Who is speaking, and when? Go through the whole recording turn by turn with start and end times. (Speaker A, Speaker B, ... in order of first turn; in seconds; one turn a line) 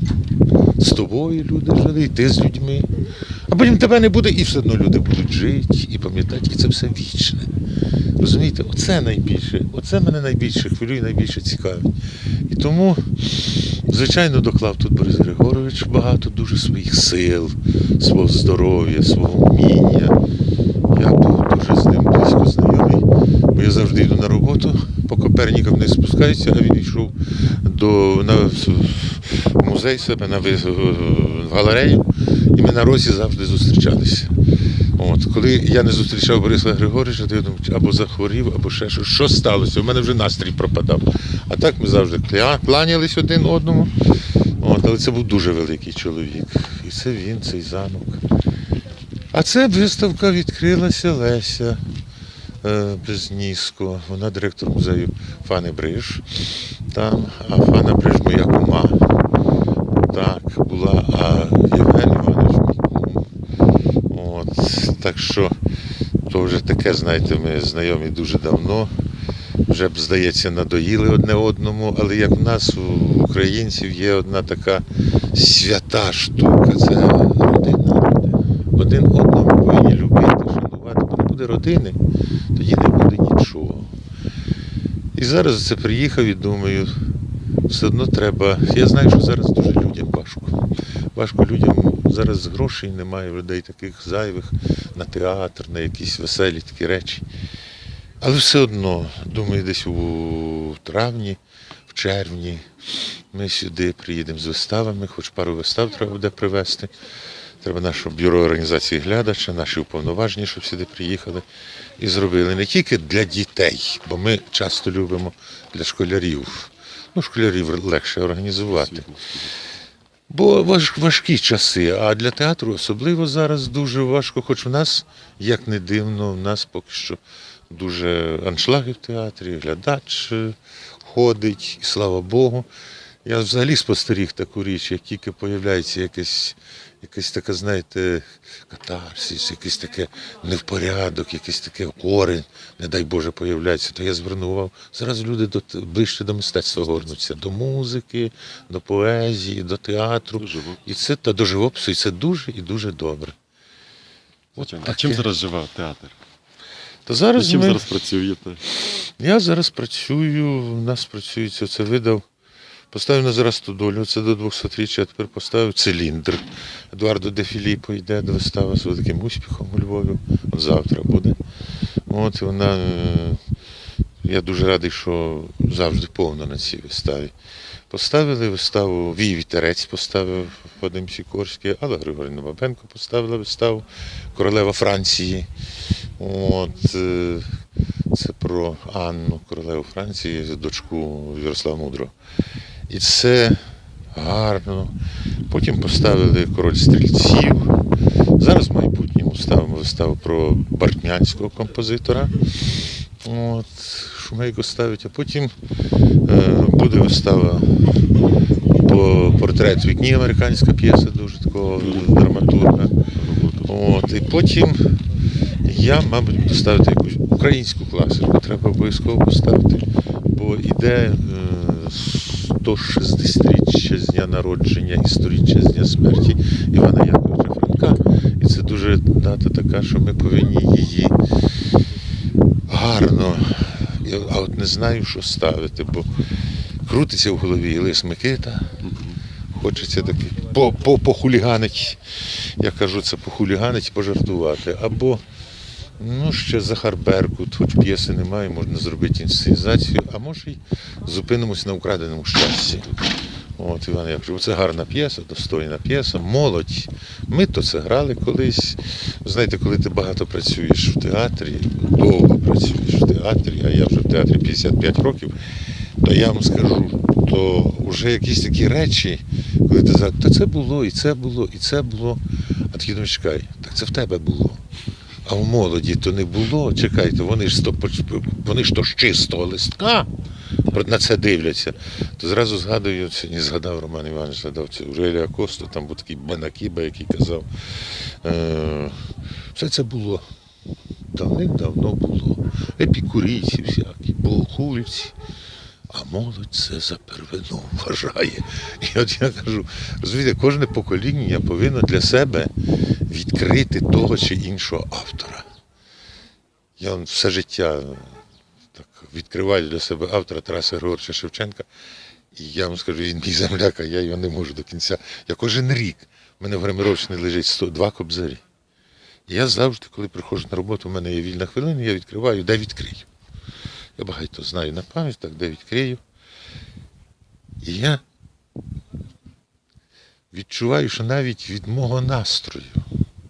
Speaker A: 0.8-2.9
Speaker A: 3.5-7.5
Speaker A: 8.2-11.9
Speaker A: 12.5-20.2
Speaker A: 20.9-34.3
Speaker A: 35.0-44.0
Speaker A: 44.6-48.2
Speaker A: 49.3-51.8
Speaker A: 52.6-59.0
Speaker A: 60.0-63.3
Speaker A: 64.1-65.5
Speaker A: 66.3-68.9
Speaker A: 69.7-82.0
Speaker A: 82.5-83.9
Speaker A: 85.2-86.9
Speaker A: 87.7-90.6
Speaker A: 91.2-97.2
Speaker A: 98.2-102.6
Speaker A: 103.3-106.9
Speaker A: 107.6-111.5
Speaker A: 112.0-119.0
Speaker B: 118.7-119.5
Speaker A: 120.3-132.7
Speaker A: 133.2-153.3
Speaker B: 150.4-150.8
Speaker A: 154.6-155.3
Speaker B: 154.6-156.2
Speaker A: 157.1-157.8
Speaker B: 157.4-158.7
Speaker A: 158.8-162.2
Speaker A: 162.9-171.4
Speaker A: 172.1-173.4
Speaker A: 174.2-177.3
Speaker A: 177.9-185.5
Speaker A: 186.2-187.5
Speaker A: 188.1-192.1
Speaker A: 192.9-193.6
Speaker A: 194.1-194.9
Speaker A: 195.5-197.8
Speaker A: 198.4-202.3
Speaker A: 203.2-205.5
Speaker A: 206.2-207.9
Speaker A: 208.8-212.9
Speaker B: 211.8-212.2
Speaker B: 213.1-213.7
Speaker A: 213.7-215.0
Speaker A: 215.6-231.2
Speaker A: 232.7-236.2
Speaker A: 236.8-238.8
Speaker B: 238.8-239.2
Speaker A: 239.5-245.2
Speaker A: 246.0-253.0
Speaker A: 253.6-265.4
Speaker A: 266.0-274.6
Speaker A: 275.2-280.1
Speaker A: 280.7-289.0
Speaker A: 289.6-290.2
Speaker A: 291.1-295.1
Speaker A: 295.9-302.5
Speaker A: 303.1-305.4
Speaker A: 306.8-308.2
Speaker A: 308.7-311.7
Speaker A: 312.3-318.4
Speaker A: 319.3-323.1
Speaker A: 324.0-326.0
Speaker A: 327.6-328.0
Speaker A: 330.3-332.9